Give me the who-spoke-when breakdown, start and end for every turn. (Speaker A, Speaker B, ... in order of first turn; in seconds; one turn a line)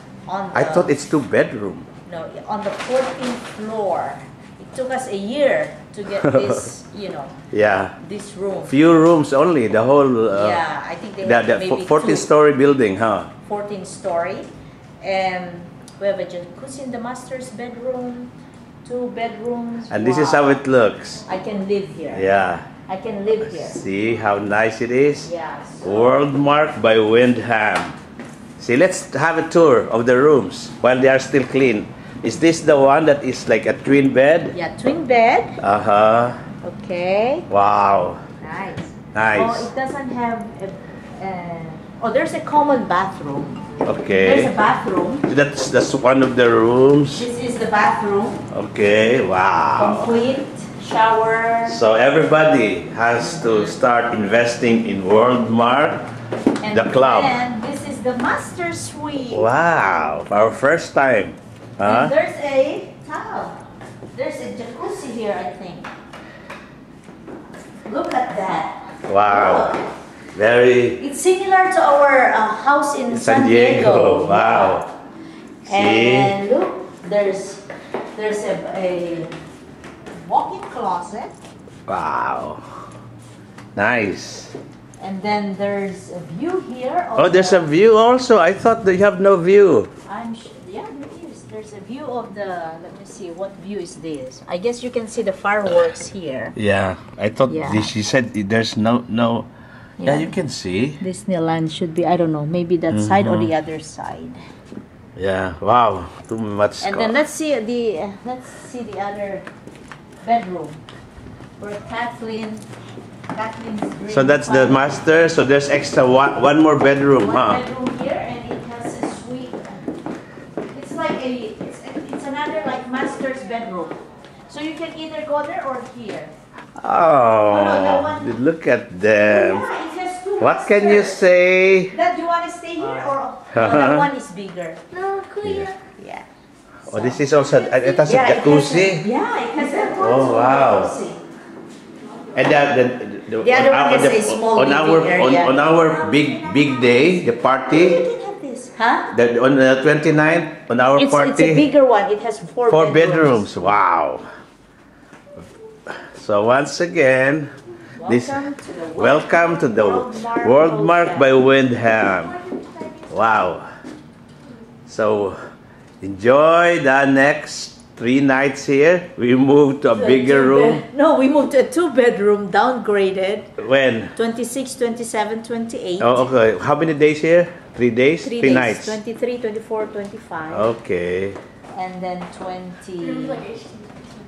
Speaker A: 0.3-1.0
Speaker B: 0.5-1.9
Speaker A: 2.1-7.4
Speaker B: 6.2-6.6
Speaker B: 7.5-8.0
Speaker A: 8.0-8.8
Speaker B: 8.7-10.6
Speaker A: 10.3-12.3
Speaker B: 11.2-13.3
Speaker A: 13.4-14.5
Speaker A: 15.0-18.3
Speaker A: 18.8-20.6
Speaker B: 19.9-21.2
Speaker A: 21.3-22.3
Speaker B: 22.1-22.7
Speaker A: 22.9-23.8
Speaker B: 23.4-25.3
Speaker A: 25.2-26.1
Speaker B: 25.8-28.0
Speaker B: 28.6-34.6
Speaker A: 34.5-35.6
Speaker B: 35.6-36.4
Speaker A: 36.6-37.5
Speaker B: 37.5-38.2
Speaker A: 38.4-43.5
Speaker B: 39.1-39.7
Speaker B: 43.8-44.5
Speaker A: 44.1-45.3
Speaker B: 45.3-47.3
Speaker A: 47.1-48.5
Speaker B: 48.5-50.1
Speaker A: 49.8-51.8
Speaker B: 51.7-56.1
Speaker A: 53.2-53.8
Speaker A: 56.6-59.5
Speaker B: 56.7-57.4
Speaker B: 59.3-62.1
Speaker A: 61.8-63.6
Speaker A: 64.1-65.9
Speaker A: 67.9-69.9
Speaker B: 69.1-69.8
Speaker B: 70.3-71.0
Speaker A: 71.0-74.9
Speaker B: 73.1-74.9
Speaker B: 75.7-76.3
Speaker A: 75.7-77.7
Speaker A: 78.2-79.3
Speaker A: 80.2-81.3
Speaker B: 81.9-82.6
Speaker B: 83.8-84.5
Speaker A: 85.0-87.7
Speaker B: 87.2-89.9
Speaker A: 90.1-96.6
Speaker B: 96.6-99.5
Speaker A: 97.5-97.9
Speaker A: 100.0-100.4
Speaker B: 100.0-101.0
Speaker A: 101.0-104.4
Speaker B: 102.9-103.5
Speaker B: 105.2-107.2
Speaker A: 106.8-109.5
Speaker A: 110.2-110.8
Speaker A: 111.6-112.7
Speaker A: 113.3-115.0
Speaker B: 114.1-117.6
Speaker A: 117.2-119.8
Speaker A: 120.7-126.3
Speaker B: 126.8-129.7
Speaker A: 127.5-128.3
Speaker A: 129.2-131.3
Speaker B: 130.4-131.9
Speaker A: 131.9-136.3
Speaker B: 133.5-134.1
Speaker B: 135.4-135.7
Speaker A: 136.9-141.2
Speaker B: 136.9-139.1
Speaker B: 139.8-140.9
Speaker B: 142.3-148.0
Speaker A: 143.4-149.1
Speaker B: 149.1-151.7
Speaker A: 151.0-153.8
Speaker B: 152.7-154.3
Speaker B: 155.9-157.5
Speaker A: 158.0-163.5
Speaker B: 158.0-158.4
Speaker B: 158.9-162.3
Speaker B: 163.1-163.7
Speaker B: 164.9-165.4
Speaker B: 166.0-170.8
Speaker A: 169.9-173.5
Speaker B: 173.6-174.2
Speaker A: 174.2-176.3
Speaker B: 176.0-179.0
Speaker A: 178.2-180.7
Speaker B: 180.5-181.4
Speaker A: 181.7-183.6